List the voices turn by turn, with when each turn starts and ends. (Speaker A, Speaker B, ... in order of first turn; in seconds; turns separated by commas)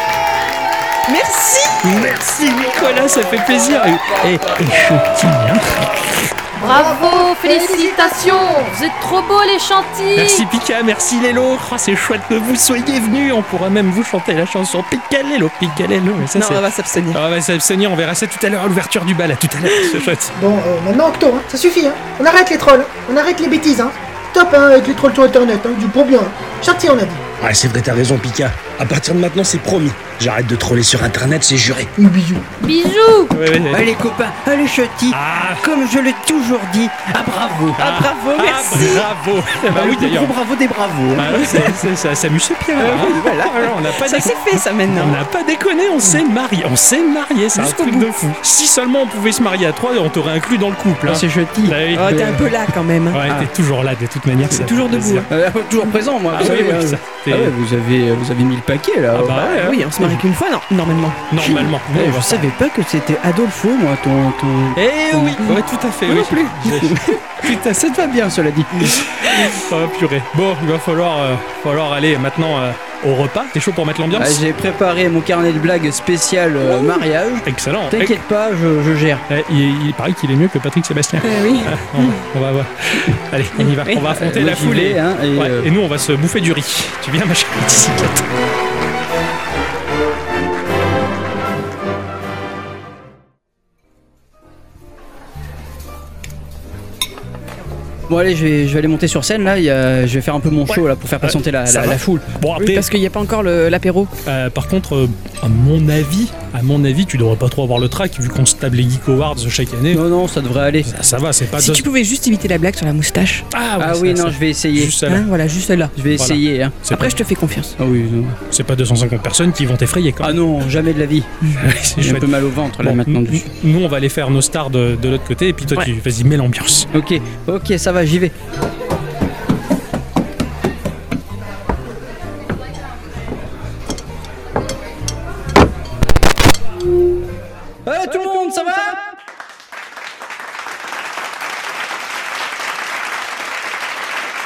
Speaker A: 1.1-2.0, Speaker B: 1.8-6.3, Speaker C: 6.6-8.7, Speaker D: 6.6-10.4, Speaker B: 10.1-20.3, Speaker A: 16.3-17.2, Speaker C: 20.4-27.2, Speaker E: 27.4-31.9, Speaker C: 32.0-32.4, Speaker D: 32.6-33.3, Speaker B: 33.3-33.9, Speaker F: 33.7-37.8, Speaker B: 35.1-35.6, Speaker B: 37.8-40.4, Speaker A: 37.8-39.1, Speaker F: 39.7-41.6, Speaker B: 41.1-52.5, Speaker A: 41.3-41.6, Speaker F: 42.8-43.5, Speaker A: 42.9-45.2, Speaker A: 47.5-48.1, Speaker F: 51.0-52.5, Speaker A: 51.9-53.3, Speaker B: 53.1-55.3, Speaker F: 53.2-53.5, Speaker A: 54.5-55.3, Speaker F: 55.3-59.7, Speaker B: 56.2-57.5, Speaker B: 59.1-60.2, Speaker A: 59.3-61.6, Speaker B: 61.3-62.5, Speaker F: 61.4-65.5, Speaker B: 64.7-67.5, Speaker A: 66.1-66.8, Speaker F: 66.8-69.1, Speaker B: 68.9-74.4, Speaker F: 74.1-79.2, Speaker B: 77.4-78.2, Speaker B: 79.3-88.3, Speaker A: 81.2-82.2, Speaker A: 83.6-84.1, Speaker F: 84.2-85.7, Speaker F: 98.1-102.3, Speaker B: 101.2-102.9, Speaker A: 102.6-104.1, Speaker B: 104.2-110.0, Speaker F: 109.9-110.9, Speaker B: 110.8-111.9, Speaker A: 111.5-113.5, Speaker B: 113.5-115.3, Speaker F: 113.8-115.0, Speaker A: 115.0-115.9, Speaker F: 116.0-116.8, Speaker B: 116.1-117.2, Speaker A: 116.9-117.7, Speaker F: 117.8-118.4, Speaker B: 118.5-120.4, Speaker F: 120.2-123.5, Speaker B: 121.6-126.9, Speaker F: 126.9-128.3, Speaker F: 137.8-139.1